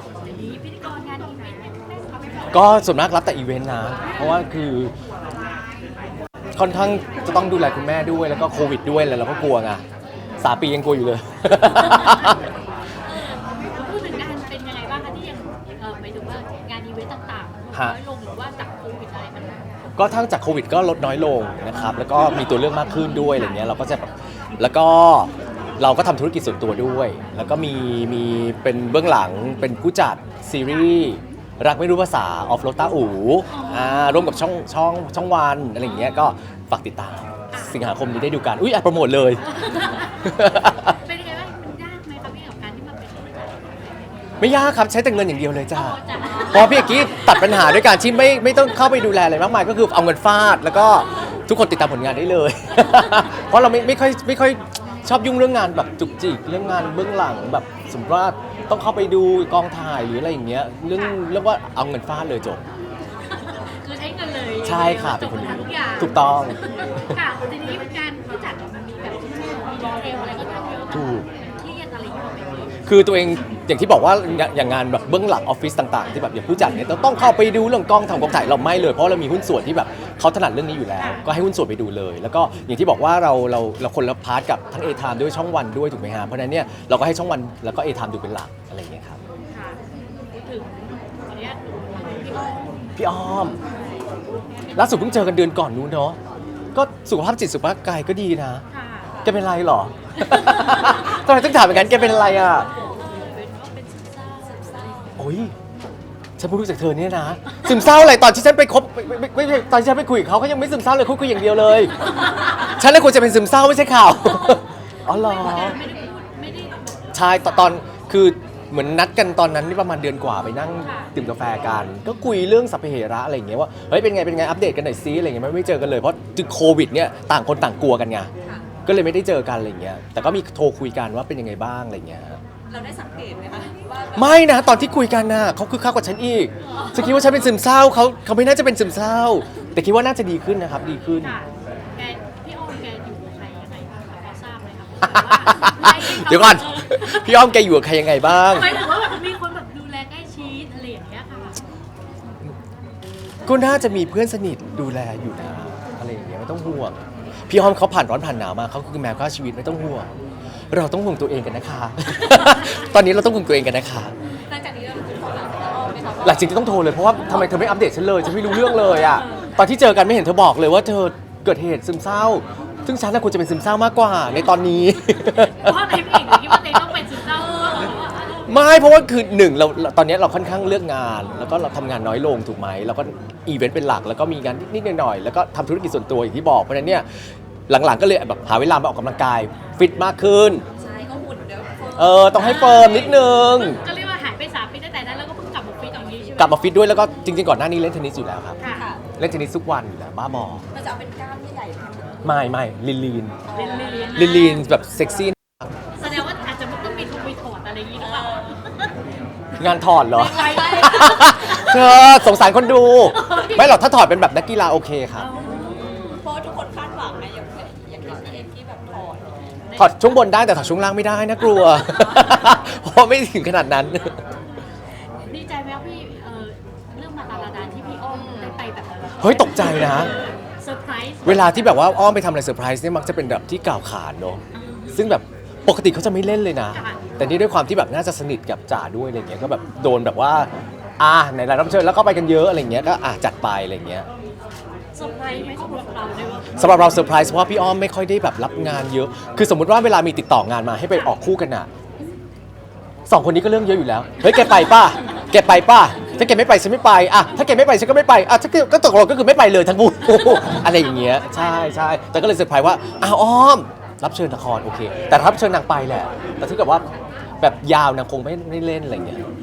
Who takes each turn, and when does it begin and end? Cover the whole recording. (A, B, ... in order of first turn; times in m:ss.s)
0:00.2-0:02.8 A
0:02.5-0:04.9 B
0:04.0-0:04.4 A
0:06.6-0:09.8 B
0:10.4-0:12.4 B
0:11.8-0:12.4 A
0:13.1-0:19.6 A
0:20.0-0:24.1 B
0:23.1-0:23.9 A
0:24.6-0:41.0 B
0:33.5-0:34.4 A
0:36.0-0:36.2 A
0:37.5-0:37.8 A
0:39.5-0:44.5 A
0:44.4-1:02.6 B
0:45.6-0:48.0 A
0:52.9-0:53.4 A
1:00.9-1:01.2 A
1:03.3-1:12.7 A
1:04.6-1:07.2 B
1:10.9-1:11.2 B
1:12.9-1:29.2 B
1:21.0-1:21.2 A
1:29.5-1:29.8 A
1:30.4-1:32.9 A
1:33.0-1:33.6 B
1:34.6-1:35.4 A
1:34.7-1:36.2 B
1:36.7-1:38.6 B
1:38.7-1:39.1 A
1:39.1-1:39.4 C
1:39.2-1:42.7 B
1:40.2-1:45.2 A
1:44.4-1:45.2 C
1:45.2-1:45.5 B
1:46.4-1:55.8 B
1:55.0-1:57.8 A
1:57.1-2:08.3 B
2:00.8-2:01.1 A
2:08.8-2:12.4 B
2:12.7-2:14.6 C
2:14.1-2:21.4 B
2:16.6-2:17.5 A
2:21.2-2:27.5 A
2:25.0-2:28.7 B
2:28.2-2:31.6 A
2:33.4-2:40.1 B
2:40.7-2:44.1 B
2:44.5-2:47.0 C
2:46.2-2:56.9 B
2:48.5-2:49.6 A
2:55.2-2:59.0 A
2:58.4-3:07.0 B
3:07.7-3:10.6 B
3:10.8-3:12.5 C
3:11.9-3:13.8 B
3:12.3-3:17.1 A
3:16.4-3:18.6 B
3:18.6-3:18.9 A
3:18.7-3:19.0 C
3:19.2-3:20.6 B
3:20.7-3:22.2 C
3:22.2-3:23.4 B
3:23.5-3:24.3 C
3:23.5-3:24.8 A
3:24.1-3:25.4 B
3:26.0-3:28.9 A
3:28.0-3:28.6 C
3:29.6-3:35.3 B
3:30.0-3:32.2 A
3:30.5-3:31.4 C
3:33.0-3:33.8 A
3:35.2-3:36.2 A
3:35.4-3:39.3 C
3:39.6-3:40.2 A
3:39.8-3:44.2 B
3:41.8-3:42.4 C
3:45.2-3:51.9 A
3:48.1-3:48.5 C
3:49.2-3:50.1 B
3:51.2-3:54.4 B
3:54.5-3:55.1 A
3:54.9-4:04.0 B
3:56.6-3:57.1 A
4:04.9-4:07.1 A
4:06.5-4:11.7 B
4:13.1-4:26.8 B
4:20.2-4:21.8 A
4:27.4-4:29.2 B